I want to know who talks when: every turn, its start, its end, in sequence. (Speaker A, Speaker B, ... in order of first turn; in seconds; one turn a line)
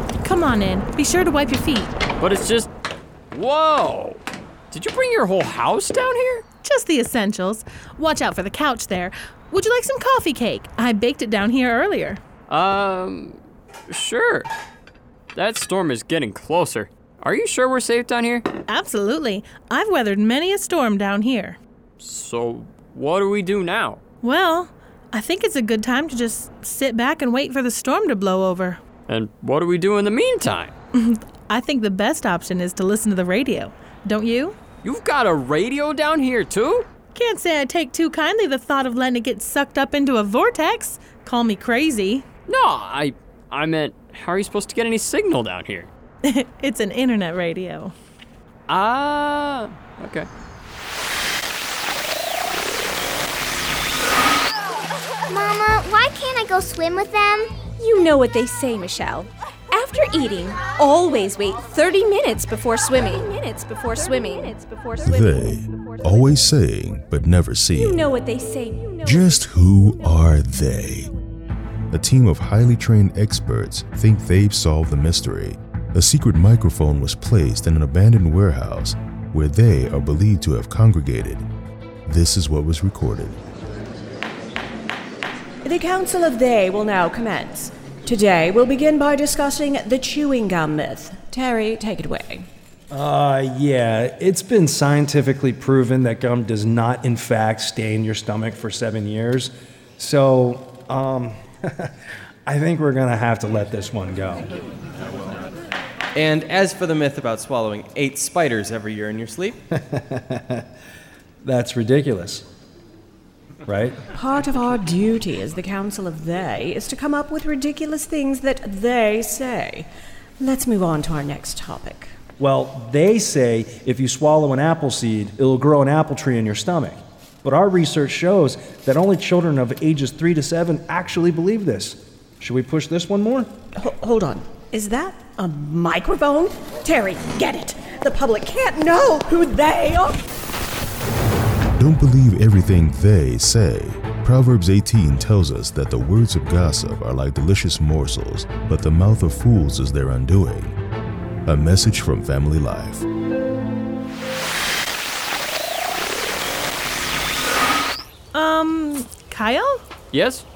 Speaker A: 0.2-1.9
Speaker B: 2.2-2.7
Speaker B: 3.3-4.2
Speaker B: 4.7-6.5
Speaker A: 6.6-12.2
Speaker B: 12.5-13.4
Speaker B: 13.9-14.5
Speaker B: 15.3-18.5
Speaker A: 18.7-21.6
Speaker B: 22.0-24.0
Speaker A: 24.2-28.8
Speaker B: 29.1-30.7
Speaker A: 30.9-34.6
Speaker B: 34.8-36.9
Speaker A: 37.1-42.2
Speaker B: 42.5-45.9
Speaker A: 46.2-47.9
Speaker B: 48.7-50.3
Speaker C: 55.3-57.7
Speaker D: 57.8-65.4
Speaker E: 65.0-68.1
Speaker D: 67.8-69.2
Speaker E: 69.0-71.1
Speaker E: 71.9-81.5
Speaker E: 82.1-83.4
Speaker F: 85.7-92.4
Speaker G: 92.9-101.9
Speaker G: 102.5-104.5
Speaker H: 106.2-109.6
Speaker G: 109.8-110.7
Speaker G: 111.4-112.5
Speaker G: 113.7-114.0
Speaker F: 114.1-119.9
Speaker F: 120.4-122.1
Speaker G: 122.4-133.5
Speaker F: 133.8-140.2
Speaker E: 141.8-150.8
Speaker E: 151.5-153.1
Speaker A: 158.3-159.8
Speaker B: 160.1-160.5